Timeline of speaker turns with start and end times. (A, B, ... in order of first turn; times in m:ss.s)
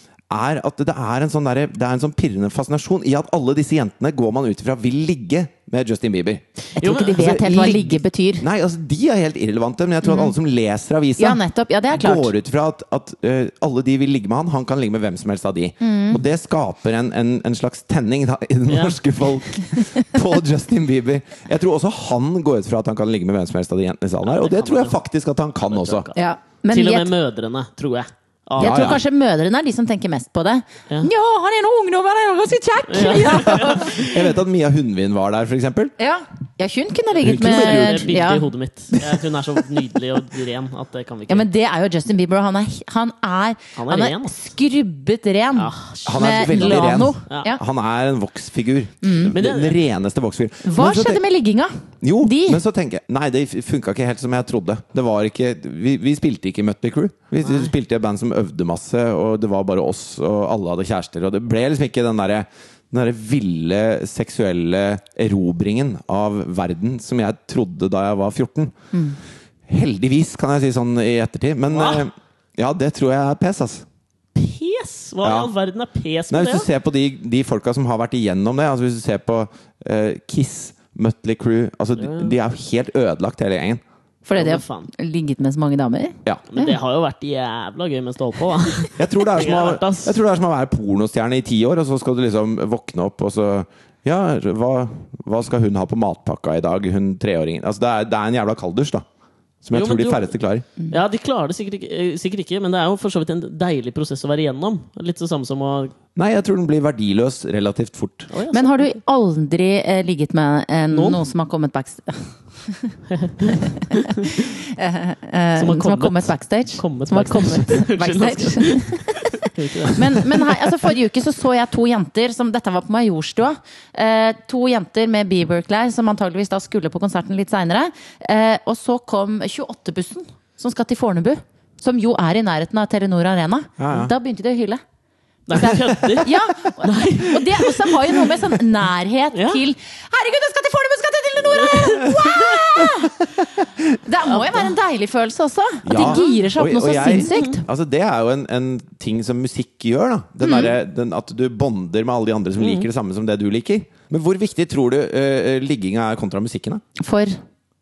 0:00.3-0:06.4 A
0:06.8-0:08.4 B
0:06.8-0:07.7 C
0:07.1-0:11.4 A
0:10.0-0:10.3 B
0:11.2-0:12.3 B
0:11.9-0:26.1 A
0:15.8-0:16.2 B
0:18.7-0:19.0 C
0:24.2-0:25.0 C
0:25.7-0:29.0 C
0:26.1-0:27.1 B
0:28.6-0:29.0 A
0:28.6-0:34.1 B
0:32.9-0:34.2 C
0:33.5-0:35.9 A
0:36.0-0:38.5 B
0:37.2-0:38.2 A
0:37.2-0:41.5 C
0:41.3-0:47.6 B
0:43.8-0:44.3 C
0:45.6-0:47.5 C
0:46.0-0:51.2 A
0:49.0-0:49.3 B
0:49.3-0:49.8 C
0:50.6-0:52.6 B
0:52.0-1:08.7 A
0:57.4-0:57.7 C
1:08.9-1:09.2 B
1:09.7-1:13.8 A
1:11.7-1:12.0 C
1:14.3-1:16.7 C
1:15.2-1:15.5 A
1:16.3-1:23.8 A
1:22.0-1:22.3 C
1:24.2-1:26.8 B
1:24.4-1:24.9 C
1:26.5-1:30.2 C
1:29.0-1:39.0 A
1:39.6-1:40.6 A
1:39.7-1:45.9 C
1:46.1-1:48.3 A
1:48.3-1:48.9 C
1:48.5-2:14.8 B
1:50.9-1:51.2 C
1:53.1-1:54.4 C
1:55.6-2:00.6 C
2:13.8-2:14.1 A
2:15.5-2:18.3 C
2:15.5-2:23.3 B
2:19.3-2:19.6 C
2:21.6-2:22.3 C
2:24.0-2:27.6 B
2:25.8-2:36.8 A
2:25.9-2:26.2 C
2:30.4-2:30.7 B
2:32.6-2:32.9 C
2:37.0-2:37.4 B